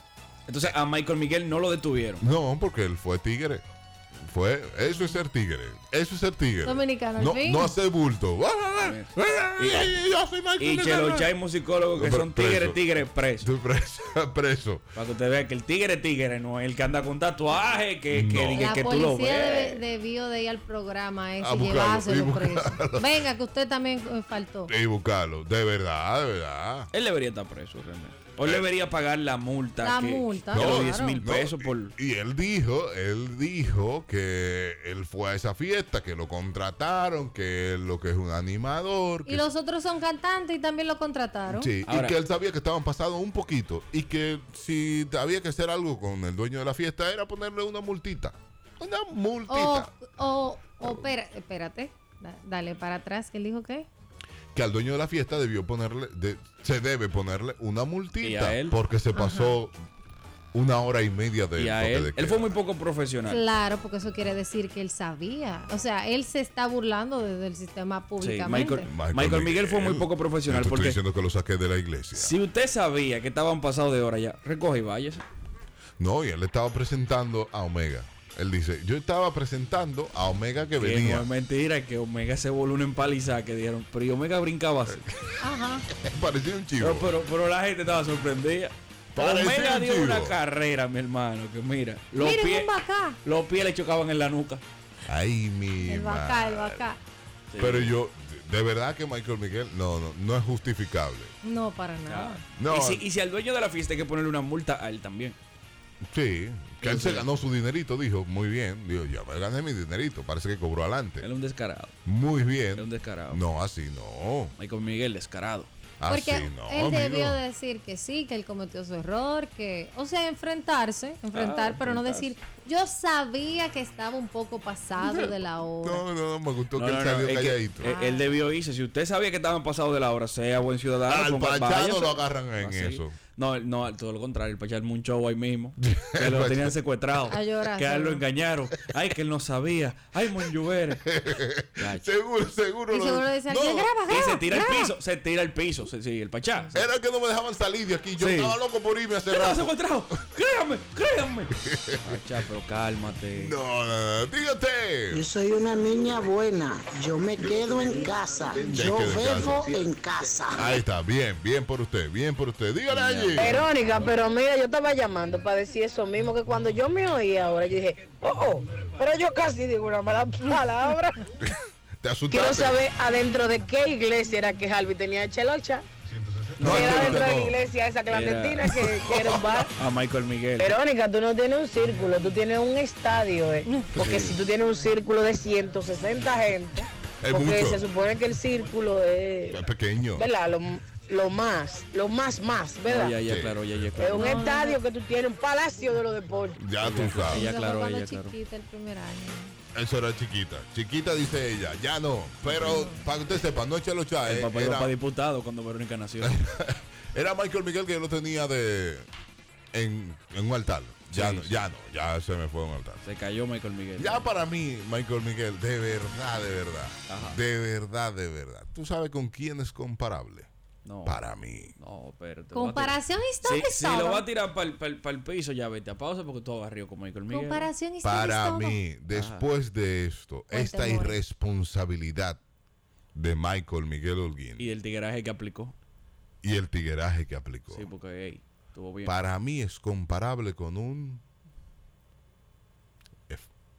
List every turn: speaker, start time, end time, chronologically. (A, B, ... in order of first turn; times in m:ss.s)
0:00.5-0:02.2 A
0:02.2-0:03.6 B
0:04.2-0:11.3 B
0:06.6-0:07.7 C
0:08.8-0:10.0 A
0:10.6-0:13.5 A
0:12.0-0:14.8 B
0:15.0-0:19.8 A
0:18.1-0:18.8 B
0:18.6-0:24.7 C
0:21.4-0:23.2 B
0:24.7-0:26.9 B
0:26.9-0:31.9 A
0:29.8-0:31.2 C
0:30.5-0:39.5 B
0:39.3-0:41.7 C
0:41.5-0:49.9 B
0:41.9-0:42.2 A
0:49.5-0:53.9 C
0:50.8-0:51.1 B
0:54.5-0:59.8 B
0:58.2-0:58.8 A
0:59.1-0:59.6 C
1:00.5-1:02.6 B
1:01.6-1:03.4 A
1:03.3-1:08.9 C
1:08.2-1:11.0 A
1:08.9-1:12.4 B
1:12.2-1:15.2 A
1:16.0-1:21.3 B
1:20.8-1:25.0 A
1:24.9-1:27.1 B
1:25.4-1:25.9 C
1:26.8-1:32.7 A
1:29.1-1:30.4 B
1:32.2-1:33.2 C
1:33.2-1:34.6 A
1:35.1-1:36.9 B
1:35.8-1:37.0 C
1:37.5-1:38.0 A
1:37.6-1:41.3 B
1:41.4-1:42.4 C
1:42.1-1:45.4 A
1:42.6-1:43.0 B
1:46.1-1:51.3 B
1:46.8-1:47.3 A
1:51.2-1:52.0 A
1:52.0-1:54.6 B
1:52.7-1:53.4 A
1:54.6-1:55.7 A
1:56.0-1:57.4 B
1:56.1-2:06.0 C
2:01.3-2:02.4 A
2:05.0-2:07.9 B
2:06.7-2:21.0 A
2:07.8-2:08.4 C
2:11.1-2:13.2 B
2:15.8-2:16.8 B
2:17.3-2:18.2 C
2:21.0-2:24.0 B
2:21.8-2:22.1 A
2:22.9-2:24.9 C
2:24.1-2:26.8 A
2:26.7-2:29.7 B
2:28.2-2:28.6 A
2:29.3-2:33.5 A
2:31.6-2:32.2 B
2:33.3-2:35.3 B
2:35.1-2:40.8 D
2:38.7-2:39.7 B
2:40.5-2:43.6 B
2:42.9-2:43.7 A
2:43.4-2:51.3 E
2:51.4-2:52.8 B
2:52.3-2:55.8 E
2:56.2-2:57.6 B
2:56.6-2:59.7 E
2:56.6-2:57.3 A
2:58.1-2:58.7 A
2:58.6-2:59.5 B
2:59.7-3:00.7 A
3:00.6-3:09.6 E
3:04.0-3:04.2 B
3:04.0-3:04.4 A
3:07.2-3:07.8 B
3:09.5-3:10.3 B
3:10.2-3:13.2 E
3:12.9-3:14.5 A
3:13.2-3:13.9 B
3:14.0-3:16.6 E
3:14.1-3:14.8 C
3:16.6-3:17.5 B
3:16.8-3:18.3 A
3:17.2-3:19.6 C
3:19.7-3:24.9 B
3:22.5-3:22.9 A
3:22.6-3:23.1 C
3:24.2-3:26.4 A
3:26.2-3:29.1 B
3:29.7-3:33.0 B
3:31.1-3:31.7 A
3:33.0-3:34.3 A
3:34.0-3:40.5 B
3:37.1-3:37.4 A
3:40.8-3:41.2 A
3:41.0-3:41.8 B
3:41.8-3:47.7 A
3:42.5-3:44.2 C
3:47.3-3:48.8 C
3:48.0-3:52.4 B
3:49.1-3:49.5 A
3:50.5-3:51.2 C
3:53.2-3:54.6 B
3:54.6-3:55.8 A
3:56.4-3:57.9 B
3:57.7-3:59.2 A
3:59.0-4:01.2 B